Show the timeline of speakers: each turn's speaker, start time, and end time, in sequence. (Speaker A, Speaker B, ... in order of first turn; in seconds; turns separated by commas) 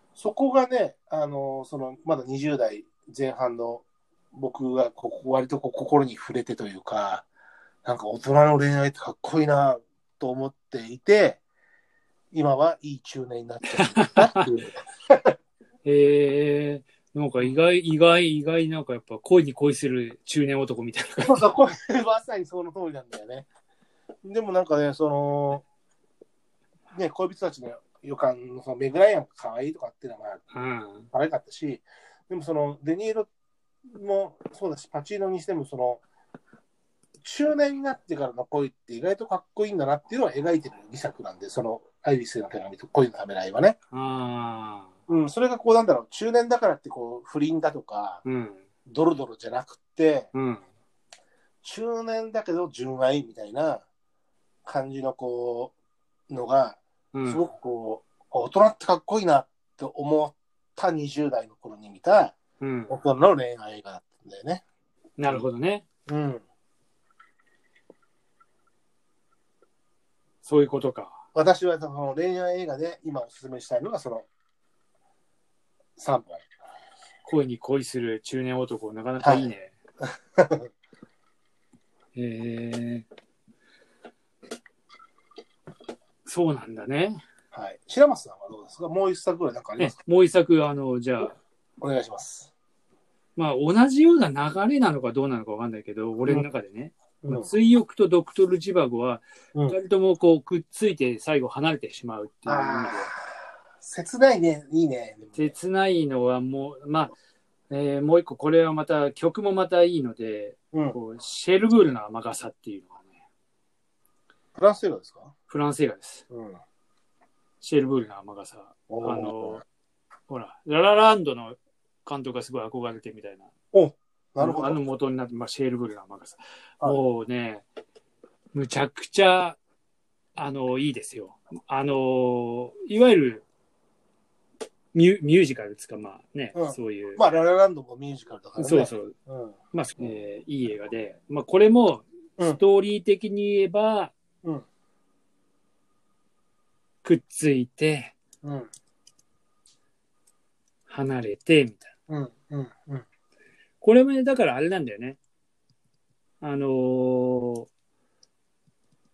Speaker A: 0.1-7.2, Speaker A: 7.8-11.4, Speaker A: 12.3-15.3, Speaker B: 13.8-14.5, Speaker B: 15.8-21.4, Speaker A: 21.2-23.5, Speaker A: 24.2-25.6, Speaker A: 26.9-30.4, Speaker B: 30.5-31.1, Speaker A: 31.1-33.3, Speaker A: 33.9-36.0, Speaker A: 37.2-43.8, Speaker B: 43.9-44.9, Speaker A: 45.1-48.2, Speaker B: 48.2-48.6, Speaker A: 48.9-50.3, Speaker B: 50.3-50.6, Speaker A: 51.6-53.8, Speaker A: 54.6-55.7, Speaker A: 56.3-62.4, Speaker B: 57.1-57.4, Speaker B: 62.6-63.0, Speaker A: 62.9-64.6, Speaker B: 65.2-65.8, Speaker A: 66.1-66.4, Speaker B: 70.4-71.2, Speaker A: 71.3-74.2, Speaker A: 76.0-76.4, Speaker B: 77.2-79.7, Speaker A: 79.2-79.5, Speaker A: 80.3-80.7, Speaker B: 82.1-83.0, Speaker B: 86.2-87.2, Speaker A: 87.5-90.0, Speaker B: 89.8-91.4, Speaker A: 91.8-92.5, Speaker B: 93.3-103.1, Speaker A: 97.2-97.5, Speaker A: 102.5-103.3, Speaker A: 103.8-105.5, Speaker B: 105.3-107.1, Speaker B: 107.7-113.1, Speaker A: 110.7-111.0, Speaker A: 114.5-115.3, Speaker B: 115.5-116.2, Speaker A: 116.3-116.6, Speaker B: 117.6-119.6, Speaker A: 118.9-119.6, Speaker B: 120.3-123.5, Speaker A: 123.7-124.8, Speaker B: 124.4-127.6, Speaker B: 128.5-129.6, Speaker B: 130.3-133.4, Speaker B: 134.9-137.2, Speaker A: 136.5-139.6, Speaker B: 138.6-139.1, Speaker B: 139.7-144.1, Speaker B: 147.0-148.1, Speaker A: 148.4-148.7, Speaker B: 150.9-151.9, Speaker A: 152.1-153.0, Speaker B: 153.8-155.2, Speaker B: 156.4-157.7